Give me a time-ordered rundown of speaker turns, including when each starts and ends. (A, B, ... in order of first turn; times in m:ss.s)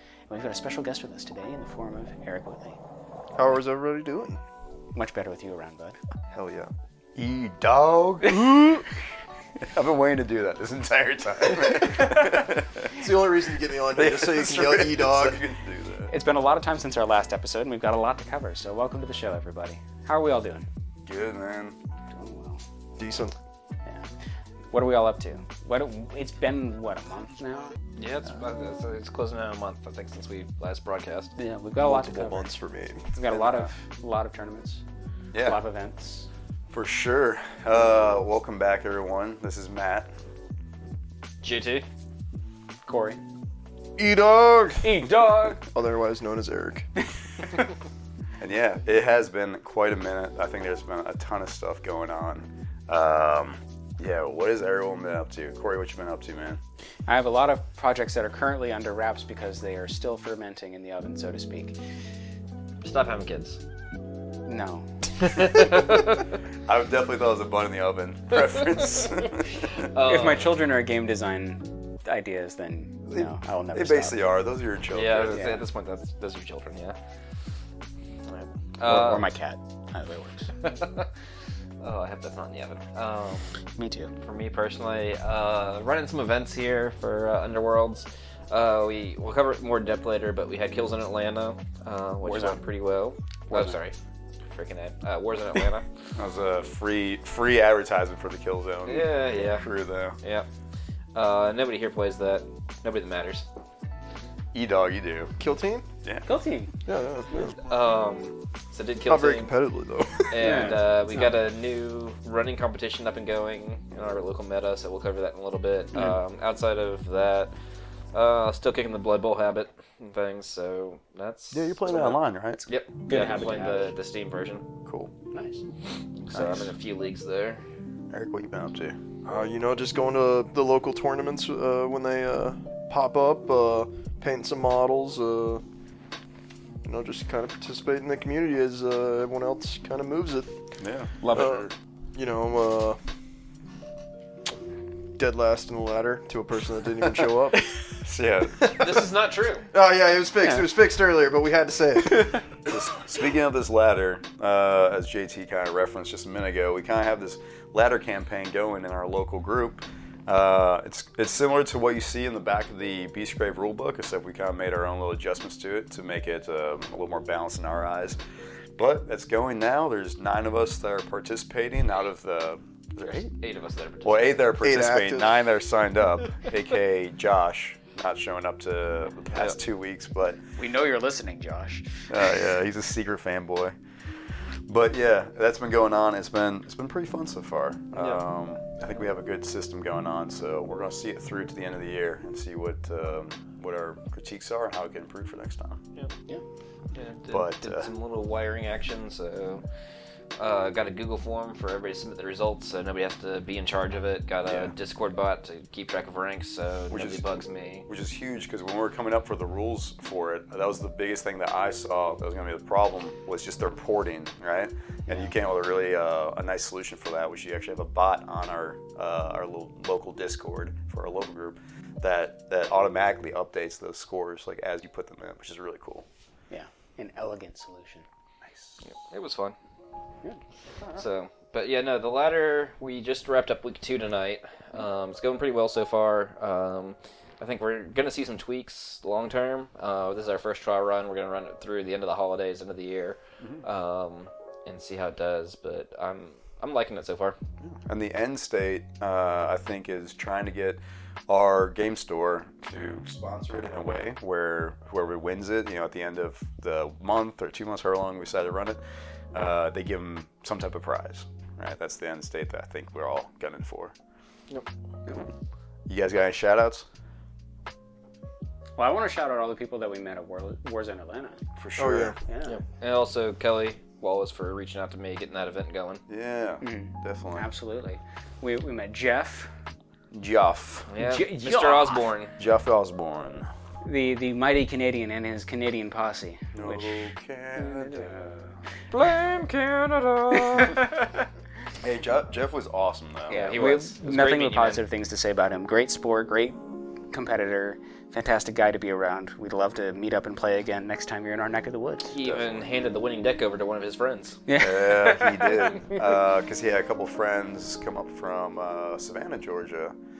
0:00.3-0:02.8 A
0:03.4-0:04.4 B
0:04.9-0:06.0 A
0:06.3-0:06.7 B
0:07.1-0:08.5 C
0:09.7-0:12.9 C
0:13.0-0:15.4 B
0:13.9-0:16.1 C
0:16.1-0:20.6 A
0:21.0-0:21.8 C
0:22.1-0:22.6 A
0:23.0-0:23.3 B
0:24.7-0:27.8 A
0:28.0-0:31.3 D
0:31.4-0:32.5 A
0:31.8-0:33.1 B
0:33.1-0:34.8 A
0:35.3-0:35.6 C
0:35.4-0:36.3 A
0:36.7-0:40.1 C
0:41.4-0:41.8 D
0:42.8-0:43.2 A
0:44.0-0:45.1 B
0:44.8-0:45.6 A
0:45.6-0:46.9 B
0:48.4-0:56.6 C
0:57.0-1:01.8 A
1:02.8-1:03.6 D
1:04.4-1:04.9 A
1:06.6-1:09.7 C
1:09.9-1:10.6 D
1:09.9-1:14.2 A
1:13.1-1:15.6 C
1:14.9-1:17.0 D
1:15.3-1:15.6 A
1:18.8-1:19.3 D
1:18.8-1:20.5 A
1:20.6-1:21.1 D
1:21.8-1:23.5 D
1:23.8-1:24.1 A
1:24.2-1:33.9 D
1:32.2-1:32.6 A
1:33.5-1:33.8 A
1:34.5-1:35.8 D
1:36.2-1:40.2 C
1:38.8-1:39.7 D
1:40.2-1:40.5 D
1:41.1-1:43.4 D
1:44.5-1:45.3 C
1:45.4-1:45.8 B
1:46.2-1:46.7 A
1:46.8-1:47.6 B
1:47.6-1:49.5 D
1:49.0-1:50.5 B
1:50.3-1:57.5 D
1:50.4-1:51.3 A
1:58.1-2:04.6 D
2:01.5-2:02.6 C
2:02.6-2:03.9 A
2:04.8-2:05.1 C
2:05.3-2:05.6 A
2:06.2-2:07.6 D
2:06.3-2:06.7 C
2:08.1-2:09.0 C
2:09.2-2:15.6 B
2:16.8-2:20.5 B
2:20.8-2:21.7 C
2:21.3-2:23.0 B
2:25.2-2:27.7 B
2:27.9-2:29.0 C
2:28.6-2:29.7 D
2:29.7-2:32.4 B
2:32.6-2:48.2 C
2:48.8-2:53.3 C
2:53.0-2:54.4 D
2:54.0-3:00.4 C
2:54.6-2:55.4 B
3:00.6-3:01.9 A
3:02.1-3:03.7 C
3:04.7-3:15.8 C
3:16.9-3:19.6 D
3:17.3-3:17.9 C
3:20.4-3:27.9 D
3:24.4-3:24.7 C
3:26.9-3:46.0 C
3:46.5-3:48.0 A
3:48.4-3:48.8 C
3:48.8-3:49.6 D
3:51.0-4:07.4 D
4:07.6-4:18.8 C
4:19.3-4:23.9 C
4:25.9-4:26.8 C
4:28.8-4:31.4 A
4:31.6-4:32.1 C
4:31.8-4:32.2 B
4:32.3-4:32.6 A
4:32.4-4:36.0 D
4:36.1-4:37.5 C
4:36.6-4:39.5 A
4:40.1-4:40.9 C
4:40.9-4:42.4 D
4:41.0-4:42.1 A
4:42.4-4:43.5 C
4:43.8-4:48.5 A
4:46.5-4:48.1 C
4:48.9-4:51.1 D
4:51.8-4:53.5 C
4:53.3-4:54.8 D
4:53.3-4:56.6 A
4:57.1-5:02.2 A
5:02.1-5:04.4 D
5:02.2-5:02.6 C
5:04.5-5:05.7 A
5:04.6-5:09.9 C